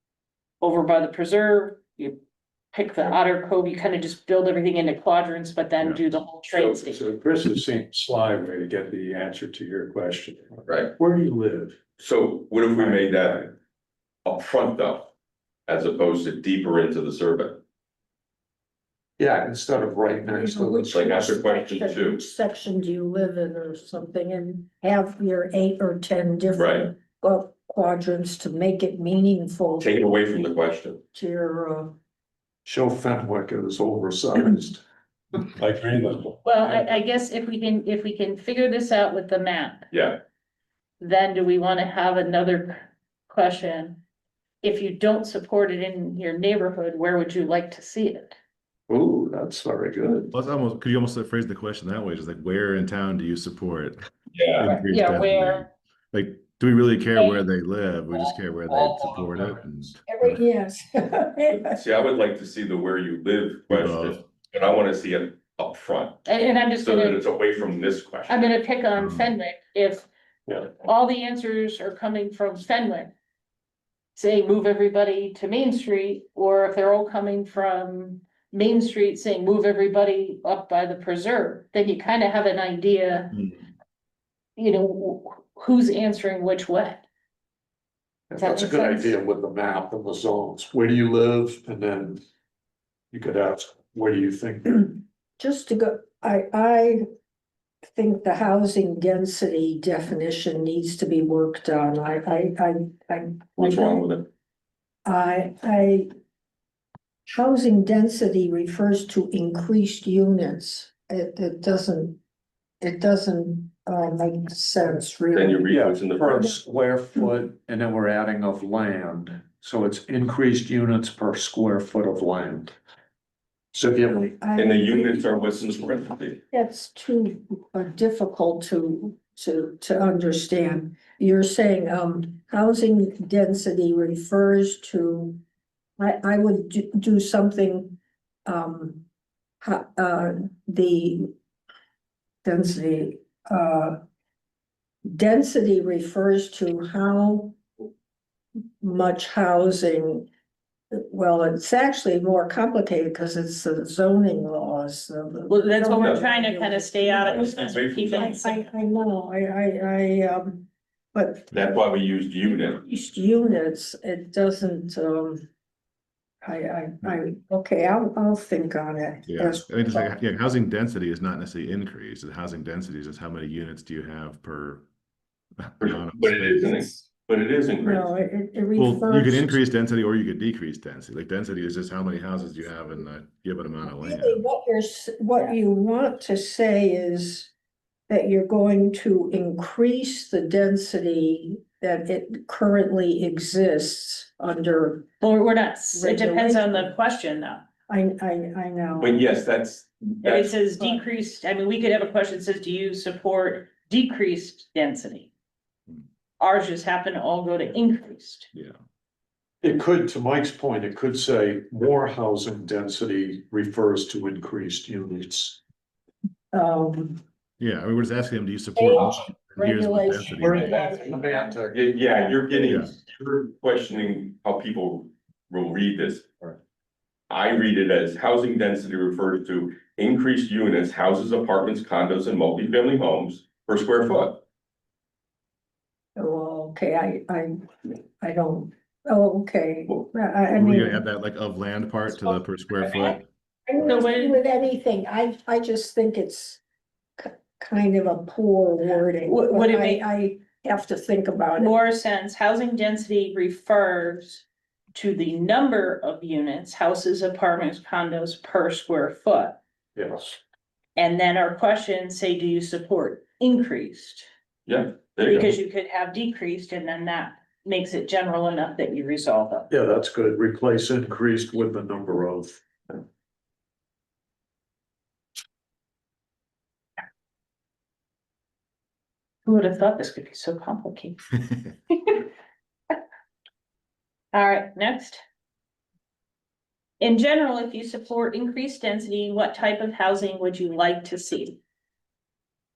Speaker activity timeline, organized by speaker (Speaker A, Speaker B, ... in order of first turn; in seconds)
Speaker A: 0.6-2.2, 2.7-7.0, 36.4-39.9, 41.0-44.0, 44.6-48.4, 54.6-55.7, 57.1-57.4, 58.1-58.8, 66.2-67.2, 68.3-70.1, 70.6-73.1, 74.1-83.4, 84.6-87.0, 88.4-89.1, 155.5-158.7, 195.2-197.6, 200.2-205.3, 206.4-208.5, 243.8-244.4, 249.2-250.0, 251.5-259.6, 260.9-264.3, 265.2-269.7, 279.4-281.2, 281.9-282.2, 284.3-285.2, 287.0-291.6
Speaker B: 6.5-6.9, 10.7-10.9, 12.0-13.6, 14.2-15.1, 15.7-17.6, 20.9-22.2, 26.5-26.9, 29.8-31.0, 39.9-40.2, 54.3-54.7, 61.8-66.2, 66.8-68.5, 103.6-104.3, 115.3-116.4, 124.5-126.4, 156.0-156.2, 157.2-158.4, 161.5-162.8, 175.8-178.1, 199.0-200.6, 221.7-226.4, 227.3-234.4, 264.7-265.5
Speaker C: 6.9-11.8, 12.8-13.1, 19.2-21.4, 32.6-34.8, 35.4-36.4, 48.9-50.3, 58.8-59.6, 88.3-92.2, 93.1-95.0, 115.7-122.8, 123.7-124.3, 209.6-215.6, 220.3-222.3, 259.9-260.4, 269.7-273.0
Speaker D: 20.3-30.0, 31.1-32.0, 60.1-61.8, 95.4-97.0, 97.9-104.1, 105.0-106.1, 107.3-112.2, 112.8-115.7, 124.2-125.3, 126.5-135.4, 136.0-139.0, 139.6-141.3, 142.4-144.0, 145.1-147.6, 148.8-150.3, 150.9-161.5, 162.5-165.4, 166.4-170.1, 177.8-179.6, 184.0-187.5, 188.1-195.1, 195.9-196.9, 197.9-199.3, 216.5-217.2, 218.7-221.6, 236.2-241.0, 242.1-246.6, 247.2-251.7
Speaker E: 50.3-54.0, 54.6-60.4, 63.7-64.2, 69.0-69.3, 169.3-174.8, 175.6-177.1, 178.8-184.4, 217.6-220.7, 222.5-222.9, 240.5-243.2